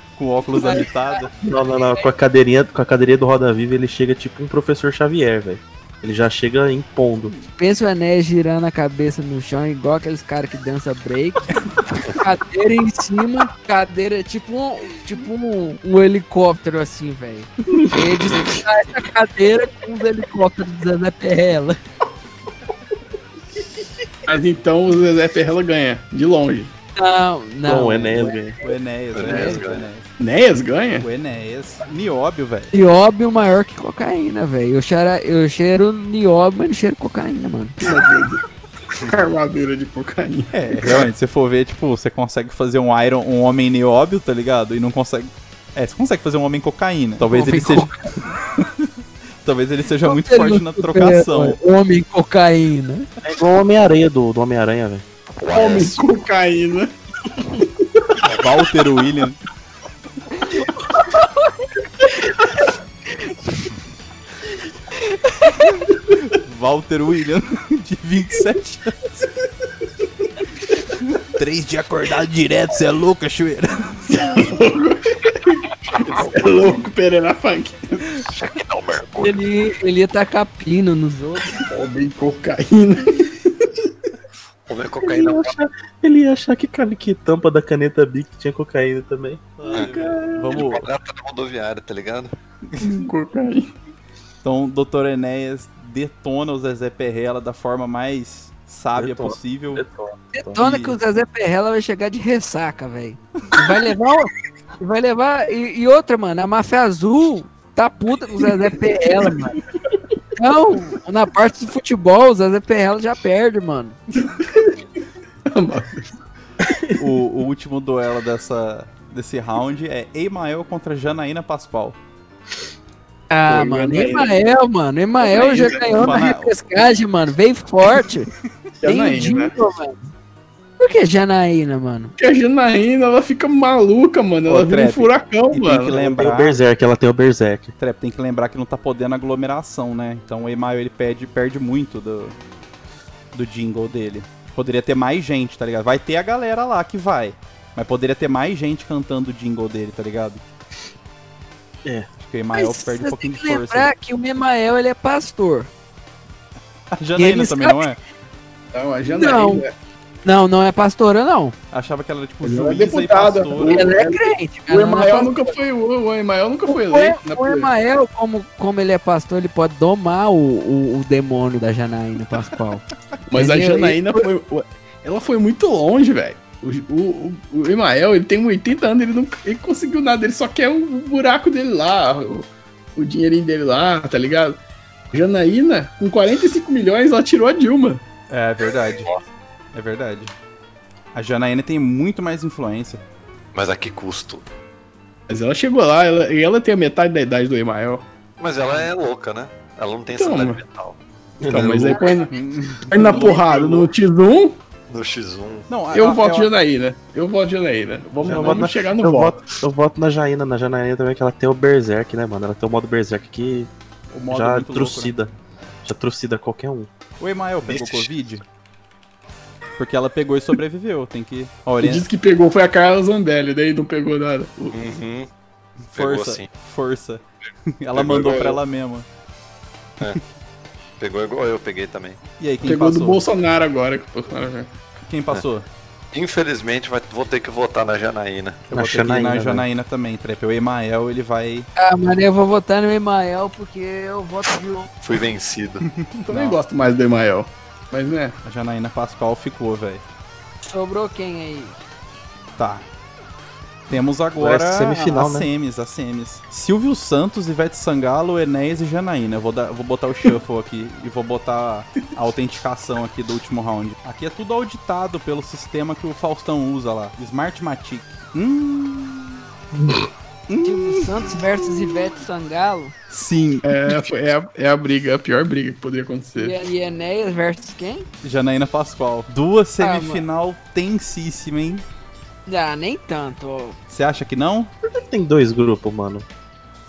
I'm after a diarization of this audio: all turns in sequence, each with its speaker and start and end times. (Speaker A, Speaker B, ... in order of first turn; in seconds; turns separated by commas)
Speaker A: 0.2-1.3, Speaker B: 0.5-2.1, Speaker C: 1.4-7.3, Speaker B: 7.5-21.8, Speaker D: 24.3-26.7, Speaker B: 27.0-28.7, Speaker C: 27.6-28.6, Speaker A: 28.6-30.1, Speaker E: 29.1-29.9, Speaker B: 29.2-29.6, Speaker D: 30.2-31.1, Speaker A: 31.0-32.7, Speaker B: 32.7-37.8, Speaker D: 37.8-38.4, Speaker D: 39.0-41.1, Speaker A: 40.5-48.9, Speaker B: 47.2-48.1, Speaker A: 49.5-51.6, Speaker B: 50.0-53.1, Speaker C: 53.2-55.0, Speaker E: 55.4-56.0, Speaker D: 55.5-56.9, Speaker D: 57.5-58.2, Speaker A: 58.3-59.4, Speaker B: 61.0-61.5, Speaker B: 65.0-65.7, Speaker A: 65.8-69.3, Speaker A: 71.2-74.3, Speaker D: 74.1-78.1, Speaker E: 75.9-76.8, Speaker E: 78.3-79.4, Speaker B: 79.2-81.6, Speaker D: 81.6-83.9, Speaker E: 84.7-85.6, Speaker C: 85.0-89.4, Speaker A: 89.6-90.9, Speaker D: 89.7-90.7, Speaker E: 90.5-92.3, Speaker A: 92.7-93.0, Speaker D: 92.8-93.7, Speaker A: 94.4-99.8, Speaker C: 99.0-100.6, Speaker B: 100.3-109.6, Speaker A: 100.6-101.0, Speaker B: 110.4-114.0, Speaker D: 114.2-114.8, Speaker D: 115.5-116.1, Speaker A: 117.0-122.0, Speaker B: 123.3-128.3, Speaker D: 123.5-124.4, Speaker D: 125.2-126.2, Speaker A: 125.9-126.6, Speaker D: 128.8-129.5, Speaker B: 128.8-130.0, Speaker B: 130.8-132.1, Speaker D: 132.2-136.1, Speaker A: 134.5-136.6, Speaker C: 136.0-137.7, Speaker A: 137.8-142.4, Speaker A: 143.3-150.4, Speaker A: 152.2-153.9, Speaker B: 152.5-155.7, Speaker A: 156.9-158.0, Speaker B: 157.2-157.9, Speaker D: 158.7-159.7, Speaker B: 159.1-159.6, Speaker B: 160.2-161.6, Speaker A: 161.7-164.0, Speaker D: 162.4-167.7, Speaker B: 163.6-165.3, Speaker B: 166.7-174.2, Speaker D: 173.3-184.6, Speaker D: 185.1-188.0, Speaker A: 188.3-189.2, Speaker A: 189.7-190.3, Speaker A: 191.1-193.0, Speaker E: 193.5-194.4, Speaker D: 195.3-198.1, Speaker E: 198.4-201.0, Speaker D: 200.1-200.6, Speaker C: 201.4-202.2, Speaker D: 201.5-202.3, Speaker B: 201.9-202.2, Speaker A: 202.3-203.9, Speaker D: 202.9-204.6, Speaker E: 204.9-205.7, Speaker A: 205.7-206.5, Speaker D: 205.9-209.4, Speaker C: 208.2-213.7, Speaker A: 208.3-208.6, Speaker A: 214.1-215.1, Speaker C: 214.3-215.3, Speaker C: 215.8-216.9, Speaker A: 217.2-218.4, Speaker E: 217.7-218.1, Speaker A: 219.8-222.1, Speaker D: 221.8-224.8, Speaker E: 224.7-225.3, Speaker A: 225.8-227.2, Speaker E: 225.9-226.5, Speaker A: 227.8-229.1, Speaker E: 227.9-228.6, Speaker E: 231.0-232.2, Speaker A: 232.4-233.2, Speaker D: 232.6-234.7, Speaker A: 235.0-235.7, Speaker E: 236.1-238.6, Speaker A: 238.7-241.7, Speaker C: 238.7-239.7, Speaker B: 241.8-244.9, Speaker E: 245.0-245.9, Speaker A: 245.8-246.6, Speaker D: 246.2-248.4, Speaker A: 248.4-250.0, Speaker B: 250.7-251.8, Speaker A: 252.6-252.9, Speaker A: 253.9-269.4, Speaker C: 254.4-255.5, Speaker A: 270.5-271.2, Speaker B: 270.6-272.9, Speaker A: 273.1-274.1, Speaker D: 273.6-276.6, Speaker B: 276.4-278.1, Speaker A: 278.2-281.8, Speaker B: 279.8-280.2, Speaker B: 282.5-283.8, Speaker A: 283.9-284.7, Speaker C: 284.9-286.2